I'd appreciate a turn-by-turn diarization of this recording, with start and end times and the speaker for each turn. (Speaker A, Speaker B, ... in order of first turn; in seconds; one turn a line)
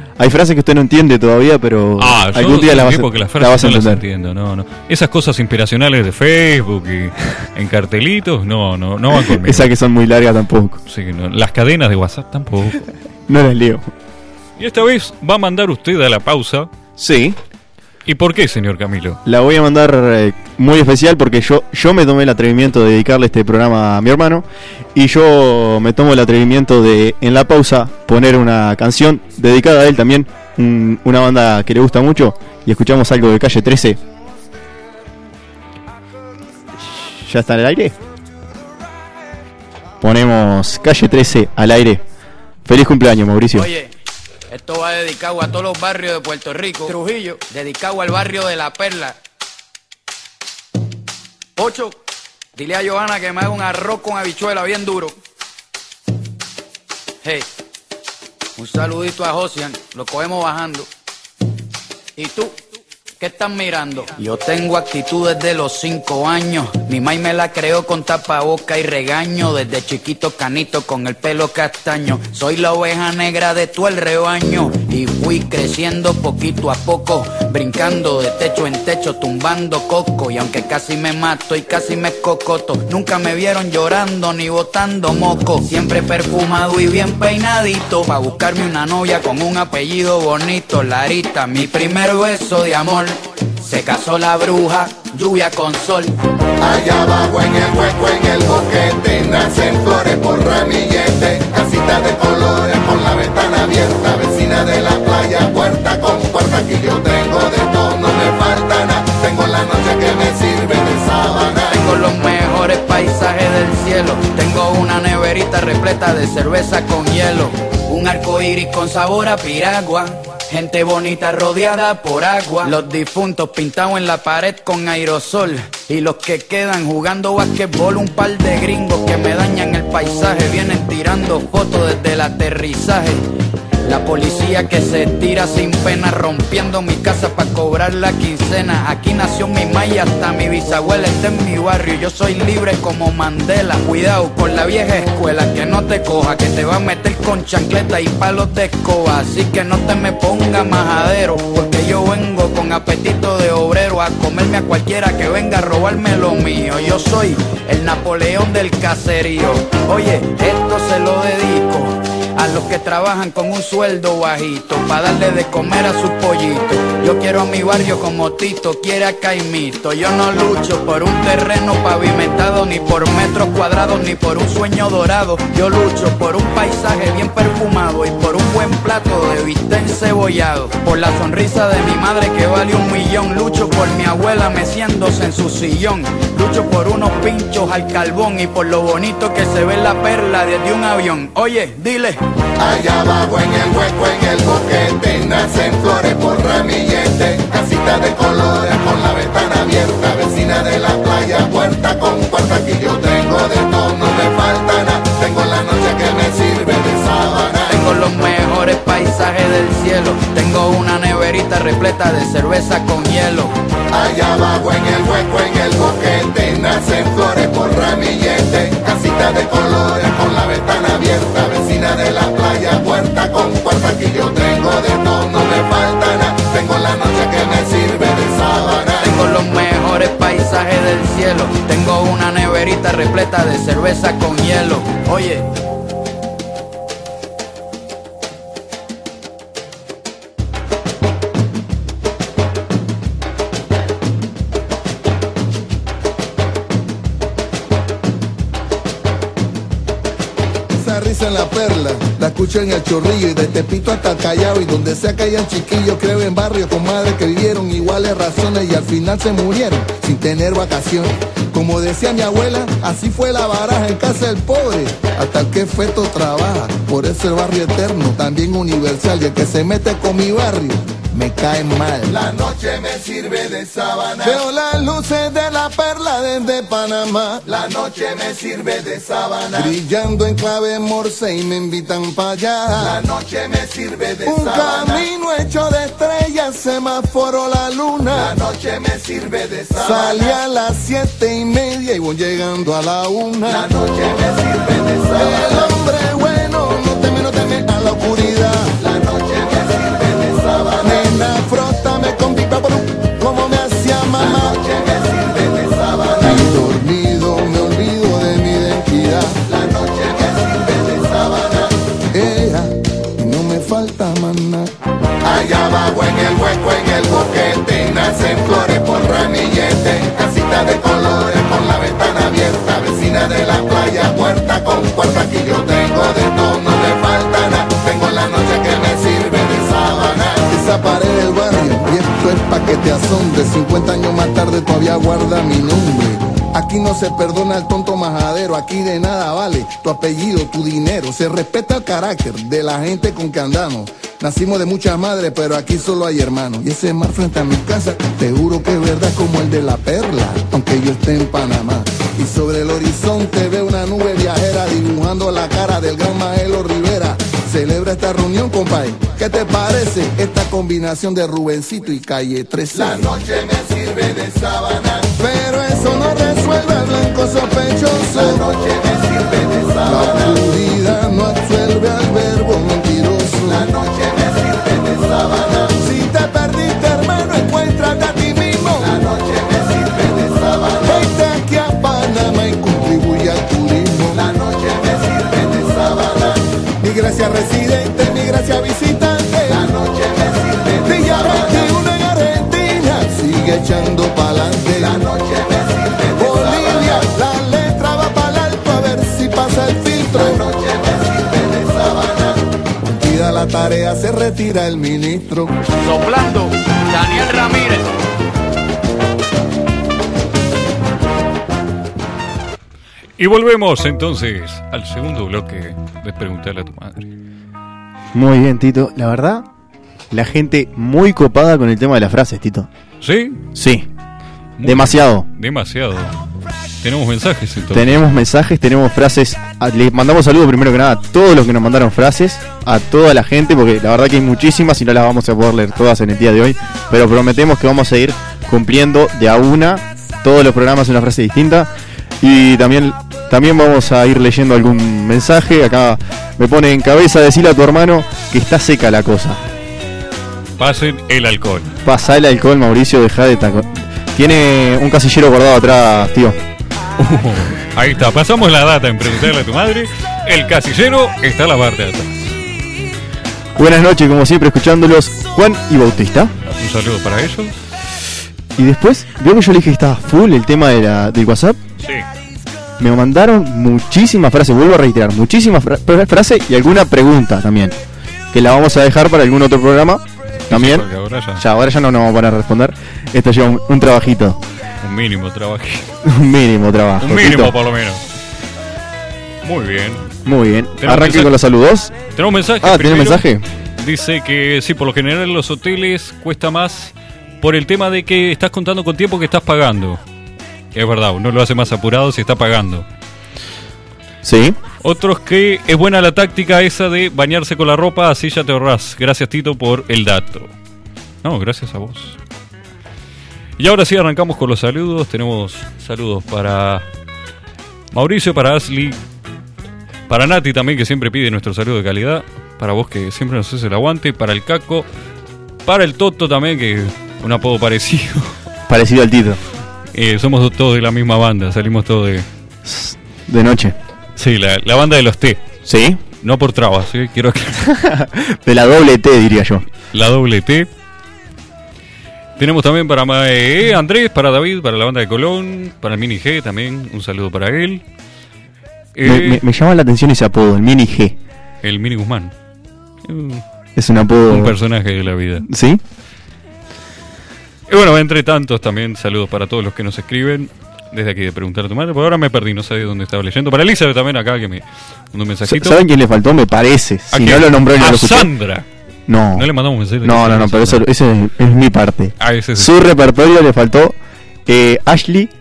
Speaker A: 0.2-4.0
Speaker B: 2.0-9.7
Speaker A: 9.1-10.8
Speaker B: 10.9-12.9
Speaker A: 13.3-13.9
Speaker B: 14.6-16.7
Speaker A: 17.0-17.4
Speaker B: 18.1-19.2
Speaker A: 19.2-34.0
Speaker A: 36.8-38.0
Speaker A: 40.0-42.0
Speaker A: 42.6-43.7
Speaker C: 43.5-43.9
Speaker C: 44.5-49.2
Speaker C: 51.6-52.0
Speaker C: 52.6-55.2
Speaker C: 57.2-57.5
Speaker C: 58.6-60.9
Speaker C: 62.2-62.6
Speaker C: 63.2-96.2
Speaker D: 96.6-111.6
Speaker C: 111.7-133.3
Speaker C: 133.8-192.2
Speaker D: 192.6-207.8
Speaker C: 207.7-213.6
Speaker D: 213.9-229.0
Speaker C: 229.0-235.5
Speaker D: 250.8-277.8
Speaker D: 279.5-283.1
Speaker D: 284.2-288.4
Speaker D: 289.6-293.8
Speaker D: 295.1-299.0
Speaker D: 300.6-310.9
Speaker D: 312.1-368.7
Speaker D: 369.8-373.8
Speaker D: 375.6-380.0
Speaker D: 380.7-384.4
Speaker D: 386.8-389.8
Speaker D: 390.8-395.2
Speaker D: 396.0-400.7
Speaker D: 402.8-405.5
Speaker C: 405.8-407.9
Speaker B: 413.2-417.1
Speaker A: 418.1-419.5
Speaker A: 420.1-422.7
Speaker B: 423.0-423.4
Speaker A: 423.5-423.9
Speaker B: 424.6-426.1
Speaker A: 424.6-425.3
Speaker B: 426.8-428.2
Speaker A: 427.7-441.7
Speaker A: 442.2-449.4
Speaker B: 450.6-451.7
Speaker A: 451.9-456.4
Speaker B: 457.0-462.3
Speaker A: 463.6-466.3
Speaker B: 466.6-467.6
Speaker A: 468.6-471.6
Speaker B: 471.8-472.1
Speaker A: 472.8-477.8
Speaker A: 478.3-484.4
Speaker B: 480.5-481.4
Speaker B: 484.8-485.9
Speaker A: 486.0-487.6
Speaker B: 487.0-488.0
Speaker B: 489.4-490.1
Speaker A: 490.2-491.9
Speaker B: 490.8-491.4
Speaker B: 492.1-493.3
Speaker A: 492.6-493.5
Speaker B: 493.8-500.0
Speaker B: 500.7-502.9
Speaker A: 504.2-504.6
Speaker B: 504.8-510.5
Speaker B: 511.2-512.2
Speaker B: 513.6-516.9
Speaker B: 517.9-519.0
Speaker B: 520.1-524.9
Speaker B: 525.6-528.4
Speaker A: 528.7-529.4
Speaker B: 529.9-532.3
Speaker A: 532.6-533.8
Speaker B: 534.2-535.4
Speaker A: 535.6-536.0
Speaker B: 536.2-537.7
Speaker A: 537.6-539.7
Speaker B: 539.9-540.7
Speaker B: 542.4-547.8
Speaker B: 549.0-549.4
Speaker A: 549.0-551.2
Speaker B: 551.6-552.3
Speaker B: 553.0-553.4
Speaker A: 553.8-554.6
Speaker B: 554.3-555.5
Speaker A: 555.5-555.8
Speaker B: 557.7-565.8
Speaker A: 565.5-568.3
Speaker B: 567.1-568.7
Speaker A: 569.1-569.5
Speaker B: 569.3-570.9
Speaker A: 570.0-575.3
Speaker B: 572.2-572.7